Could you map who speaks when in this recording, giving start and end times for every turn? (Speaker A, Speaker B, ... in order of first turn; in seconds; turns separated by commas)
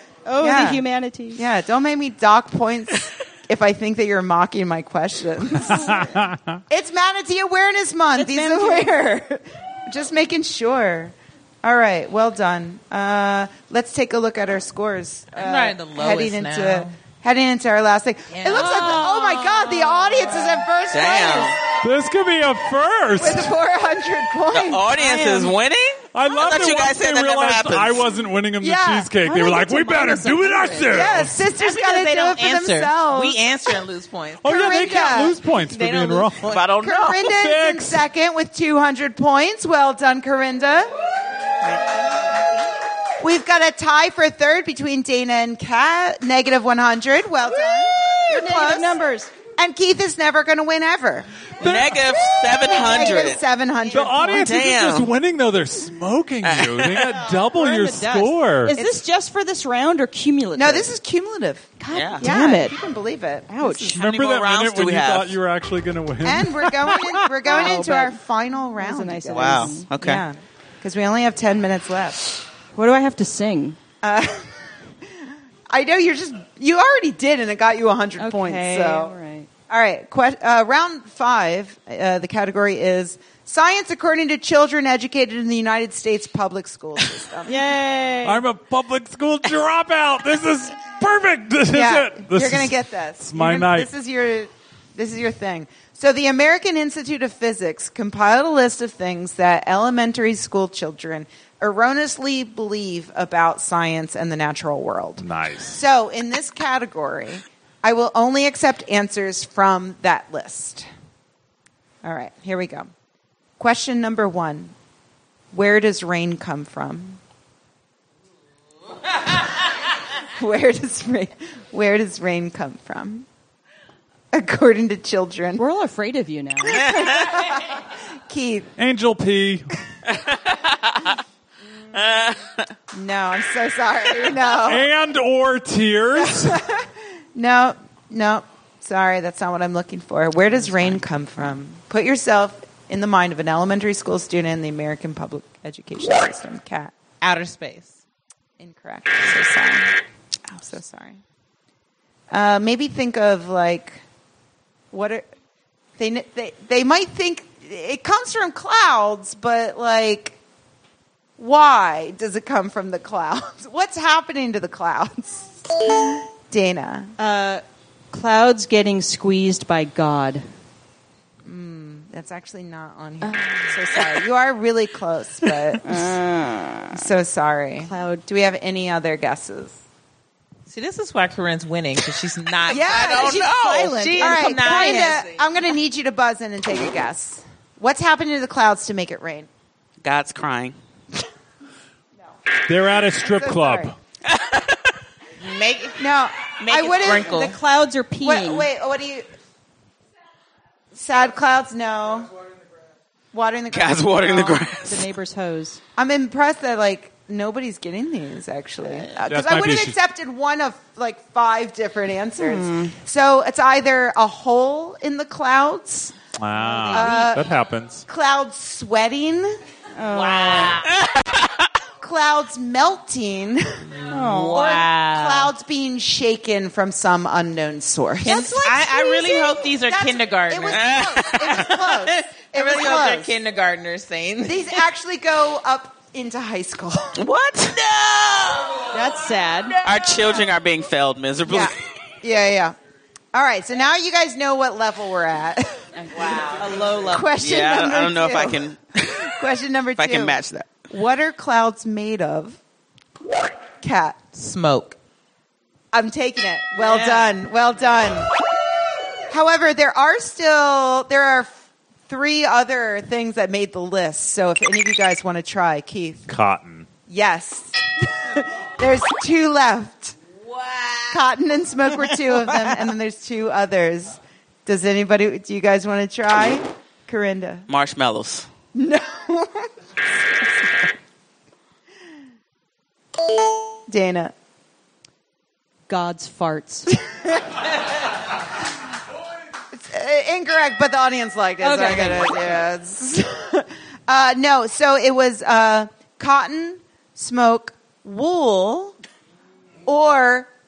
Speaker A: 0.2-1.4, Speaker B: 0.4-0.8, Speaker B: 1.4-21.6, Speaker C: 5.7-6.6, Speaker A: 8.2-8.9, Speaker D: 15.4-16.9, Speaker D: 18.3-19.0, Speaker A: 18.5-20.6, Speaker E: 20.9-21.6, Speaker C: 21.8-23.5, Speaker B: 23.2-25.5, Speaker E: 24.5-28.1, Speaker C: 26.1-31.4, Speaker B: 28.6-29.1, Speaker A: 29.2-31.1, Speaker B: 30.9-33.4, Speaker D: 31.6-36.7, Speaker C: 34.4-36.5, Speaker B: 34.5-35.4, Speaker E: 36.4-37.3, Speaker B: 36.8-40.9, Speaker C: 37.2-38.0, Speaker B: 43.2-49.0, Speaker A: 47.7-49.3, Speaker B: 49.5-54.6, Speaker E: 51.6-53.4, Speaker C: 51.6-52.1, Speaker C: 53.9-58.8, Speaker E: 54.4-55.1, Speaker E: 56.4-57.3, Speaker A: 57.4-60.9, Speaker B: 58.7-59.0, Speaker B: 60.6-64.0, Speaker A: 61.8-62.8, Speaker E: 61.9-62.3, Speaker A: 63.5-64.0, Speaker E: 63.9-65.4, Speaker C: 63.9-67.2, Speaker B: 66.2-72.4, Speaker A: 67.5-68.2, Speaker A: 68.8-69.9, Speaker E: 69.3-70.2, Speaker A: 72.8-73.8, Speaker B: 74.0-74.5, Speaker B: 75.7-79.2, Speaker A: 78.2-79.5, Speaker B: 79.7-87.6, Speaker A: 87.5-88.4, Speaker C: 88.2-93.9, Speaker B: 91.7-110.9, Speaker C: 105.2-105.8, Speaker B: 112.0-112.9, Speaker B: 113.6-114.7, Speaker B: 115.5-117.2, Speaker B: 120.4-123.3, Speaker B: 124.3-125.6, Speaker A: 125.6-127.0, Speaker B: 126.7-128.7, Speaker E: 126.8-127.4, Speaker C: 128.8-129.7, Speaker E: 130.1-131.2, Speaker E: 131.9-132.7, Speaker B: 132.9-134.9, Speaker C: 134.6-136.6, Speaker B: 136.2-146.9, Speaker D: 147.2-148.0, Speaker B: 148.6-150.0, Speaker B: 150.5-151.2, Speaker B: 152.3-154.0, Speaker B: 154.9-155.3, Speaker B: 156.0-160.4, Speaker B: 161.4-167.1, Speaker A: 167.2-170.4, Speaker B: 171.4-176.1, Speaker A: 173.2-173.6, Speaker A: 175.8-177.1, Speaker B: 176.9-179.8, Speaker A: 177.8-178.2, Speaker D: 180.7-185.5, Speaker B: 182.7-189.5, Speaker E: 182.7-184.5, Speaker E: 190.0-190.8, Speaker C: 192.7-193.9, Speaker B: 193.0-193.9, Speaker E: 194.2-194.9, Speaker D: 195.4-196.0, Speaker B: 196.0-197.6, Speaker D: 196.6-197.6, Speaker A: 197.3-198.7, Speaker B: 198.2-199.3, Speaker B: 200.9-202.3, Speaker B: 203.3-204.7, Speaker E: 203.7-205.1, Speaker A: 204.8-205.8, Speaker B: 206.0-216.2, Speaker C: 209.2-210.0, Speaker A: 212.4-212.9, Speaker C: 216.4-218.1, Speaker A: 216.6-217.3, Speaker B: 216.9-217.4, Speaker B: 218.1-219.6, Speaker A: 220.0-220.9, Speaker D: 220.1-221.0, Speaker E: 221.0-221.5, Speaker B: 222.0-223.9, Speaker D: 223.9-225.5, Speaker A: 224.1-224.8, Speaker B: 224.5-233.3, Speaker D: 228.2-234.8, Speaker E: 230.7-231.7, Speaker B: 234.4-237.2, Speaker E: 237.2-238.9, Speaker A: 238.9-239.8, Speaker E: 239.8-241.7, Speaker B: 241.5-242.8, Speaker B: 243.3-246.2, Speaker A: 246.0-246.5, Speaker D: 246.1-247.3, Speaker B: 247.1-252.6, Speaker E: 247.4-248.8, Speaker E: 250.0-250.7, Speaker B: 253.8-254.2, Speaker D: 254.3-255.0, Speaker B: 255.9-258.3, Speaker D: 256.8-257.4, Speaker B: 259.3-261.5, Speaker B: 262.1-266.3, Speaker C: 266.3-266.9, Speaker B: 267.1-270.2, Speaker D: 270.6-271.1, Speaker B: 271.1-277.7, Speaker E: 277.7-278.5, Speaker B: 278.8-279.7, Speaker B: 280.4-280.7, Speaker B: 283.9-284.3, Speaker A: 285.9-287.0, Speaker B: 289.7-298.9, Speaker A: 291.6-292.6, Speaker B: 299.9-300.5